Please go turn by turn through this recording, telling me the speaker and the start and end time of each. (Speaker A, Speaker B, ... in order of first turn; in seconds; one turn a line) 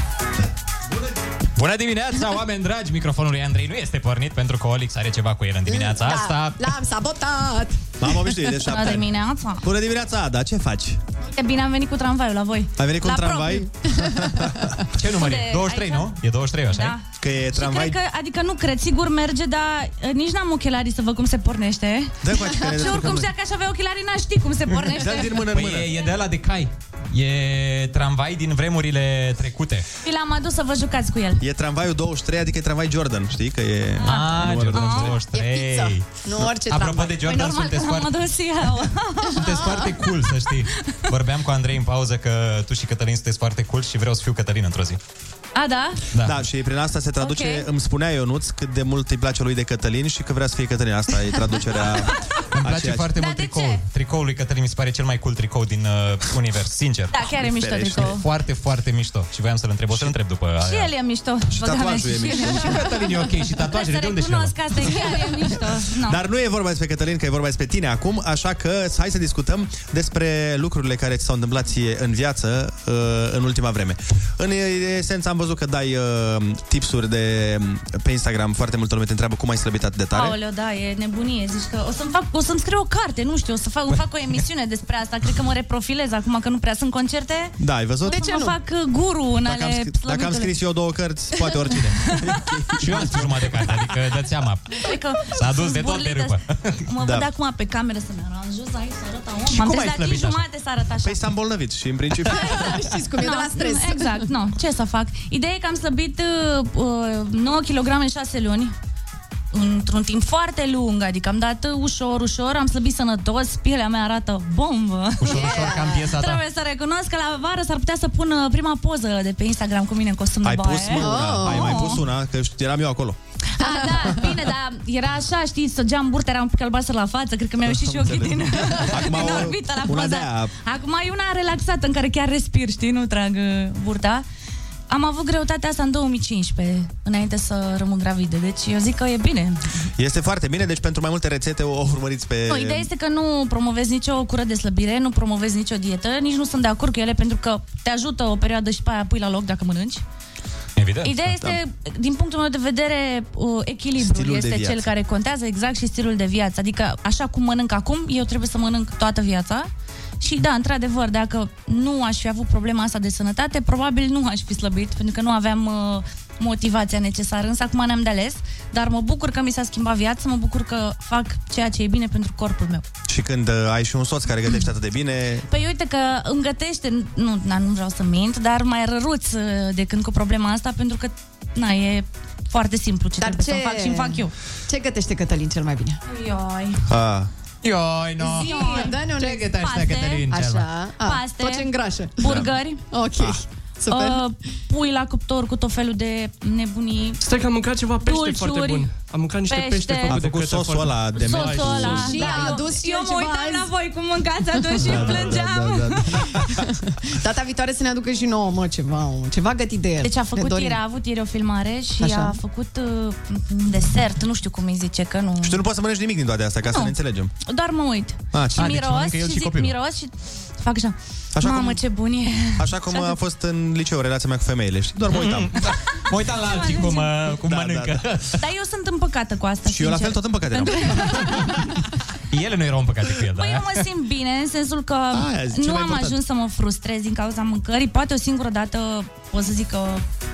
Speaker A: 1.6-6.6
Speaker B: 5.7-8.4
Speaker C: 8.0-11.0
Speaker D: 8.6-9.6
Speaker D: 11.2-13.7
Speaker C: 12.8-14.7
Speaker B: 13.9-14.8
Speaker A: 14.9-16.9
Speaker D: 15.1-16.1
Speaker D: 16.7-17.0
Speaker C: 17.2-18.0
Speaker D: 17.5-25.4
Speaker C: 22.2-23.3
Speaker C: 24.9-25.9
Speaker A: 25.5-29.8
Speaker D: 30.0-31.4
Speaker C: 31.4-35.1
Speaker A: 34.0-38.2
Speaker D: 34.0-35.1
Speaker B: 35.1-37.2
Speaker D: 37.3-39.4
Speaker A: 39.4-45.0
Speaker B: 39.4-39.9
Speaker D: 45.5-46.0
Speaker A: 46.1-46.4
Speaker C: 46.2-53.1
Speaker D: 47.2-47.7
Speaker A: 52.5-57.1
Speaker D: 53.2-53.8
Speaker D: 57.1-58.2
Speaker C: 57.3-58.1
Speaker A: 58.0-60.9
Speaker C: 59.9-60.2
Speaker D: 60.6-62.8
Speaker C: 61.5-62.8
Speaker A: 62.4-65.0
Speaker D: 63.7-66.2
Speaker C: 66.0-80.4
Speaker D: 80.1-87.5
Speaker C: 87.6-88.2
Speaker B: 88.1-88.5
Speaker D: 88.1-90.5
Speaker C: 89.4-93.6
Speaker B: 91.4-91.8
Speaker D: 92.0-92.4
Speaker A: 92.8-96.8
Speaker D: 94.8-101.2
Speaker C: 97.0-97.3
Speaker A: 99.5-100.4
Speaker C: 101.0-102.8
Speaker B: 102.3-104.3
Speaker D: 103.1-108.7
Speaker D: 109.5-115.5
Speaker A: 115.2-116.4
Speaker B: 115.2-116.1
Speaker D: 116.2-122.0
Speaker C: 120.4-123.2
Speaker B: 120.9-122.0
Speaker D: 123.6-134.2
Speaker B: 123.6-124.4
Speaker C: 127.6-130.5
Speaker D: 134.9-139.6
Speaker C: 140.0-142.9
Speaker D: 142.5-150.0
Speaker A: 150.8-151.3
Speaker D: 151.0-159.7
Speaker C: 154.0-154.9
Speaker D: 160.2-172.8
Speaker C: 173.1-175.5
Speaker D: 175.5-184.3
Speaker B: 183.2-186.0
Speaker D: 186.0-186.8
Speaker C: 186.9-187.3
Speaker A: 187.6-190.7
Speaker B: 188.2-189.6
Speaker D: 188.3-190.3
Speaker B: 190.3-194.2
Speaker D: 191.0-192.8
Speaker D: 193.9-197.2
Speaker E: 197.2-202.2
Speaker D: 198.0-198.9
Speaker D: 199.5-200.2
Speaker C: 200.1-202.3
Speaker D: 201.1-206.2
Speaker B: 201.9-203.7
Speaker B: 204.5-205.3
Speaker C: 204.7-206.6
Speaker B: 206.6-210.8
Speaker D: 210.0-215.6
Speaker B: 212.0-212.4
Speaker C: 215.4-217.3
Speaker D: 216.6-216.9
Speaker D: 217.4-223.2
Speaker C: 218.3-218.8
Speaker A: 218.6-219.7
Speaker C: 221.3-221.8
Speaker C: 222.6-225.6
Speaker A: 225.1-228.4
Speaker D: 226.4-227.1
Speaker C: 227.4-228.0
Speaker D: 228.4-231.2
Speaker C: 229.6-231.4
Speaker A: 232.3-233.8
Speaker D: 233.4-240.0
Speaker C: 235.1-236.2